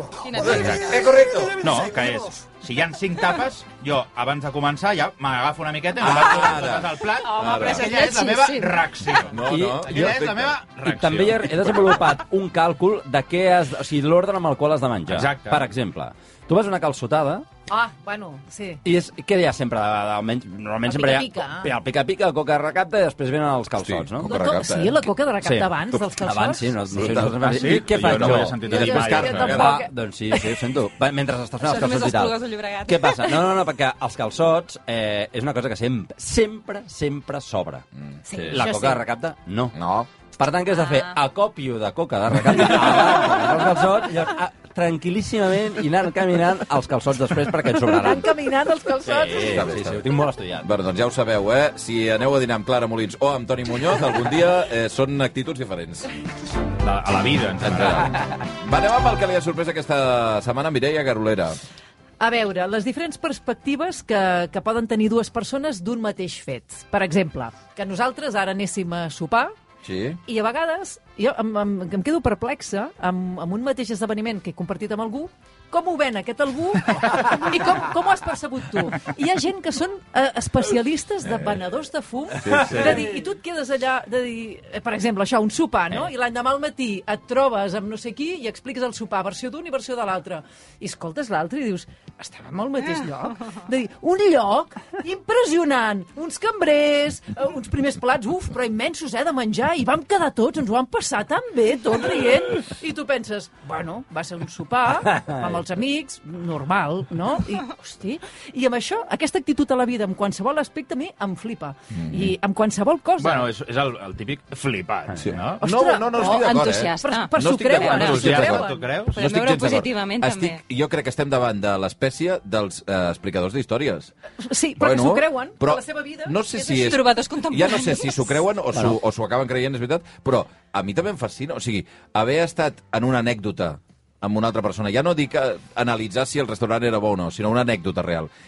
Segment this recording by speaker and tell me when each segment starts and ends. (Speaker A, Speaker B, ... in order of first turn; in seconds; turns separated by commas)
Speaker A: 0.2-1.1, Speaker B: 0.4-1.0, Speaker C: 0.4-1.6, Speaker B: 1.6-11.7, Speaker C: 6.0-7.9, Speaker A: 7.2-8.8, Speaker C: 9.3-10.6, Speaker D: 9.4-10.2, Speaker D: 10.8-17.4, Speaker B: 15.1-15.7, Speaker E: 17.7-18.8, Speaker D: 18.8-24.3, Speaker E: 20.9-21.7, Speaker C: 23.8-25.1, Speaker E: 24.2-27.2, Speaker D: 25.4-28.6, Speaker C: 26.9-29.8, Speaker B: 27.4-29.6, Speaker E: 28.7-30.6, Speaker D: 29.3-39.7, Speaker A: 31.6-33.5, Speaker E: 38.2-39.0, Speaker C: 39.7-40.1, Speaker D: 40.4-48.3, Speaker A: 40.7-41.2, Speaker E: 47.8-49.6, Speaker D: 49.0-50.7, Speaker C: 49.4-56.1, Speaker B: 56.8-58.2, Speaker C: 57.6-61.6, Speaker E: 62.2-69.5, Speaker C: 69.8-70.2, Speaker E: 70.2-113.5, Speaker C: 82.4-83.0, Speaker D: 105.0-105.6, Speaker C: 111.9-112.3, Speaker B: 113.2-115.6, Speaker C: 115.2-118.6, Speaker E: 115.6-118.9, Speaker A: 116.1-118.4, Speaker B: 117.9-119.2, Speaker A: 119.1-120.6, Speaker C: 119.2-124.1, Speaker E: 124.4-126.8, Speaker C: 124.8-138.3, Speaker A: 126.7-128.2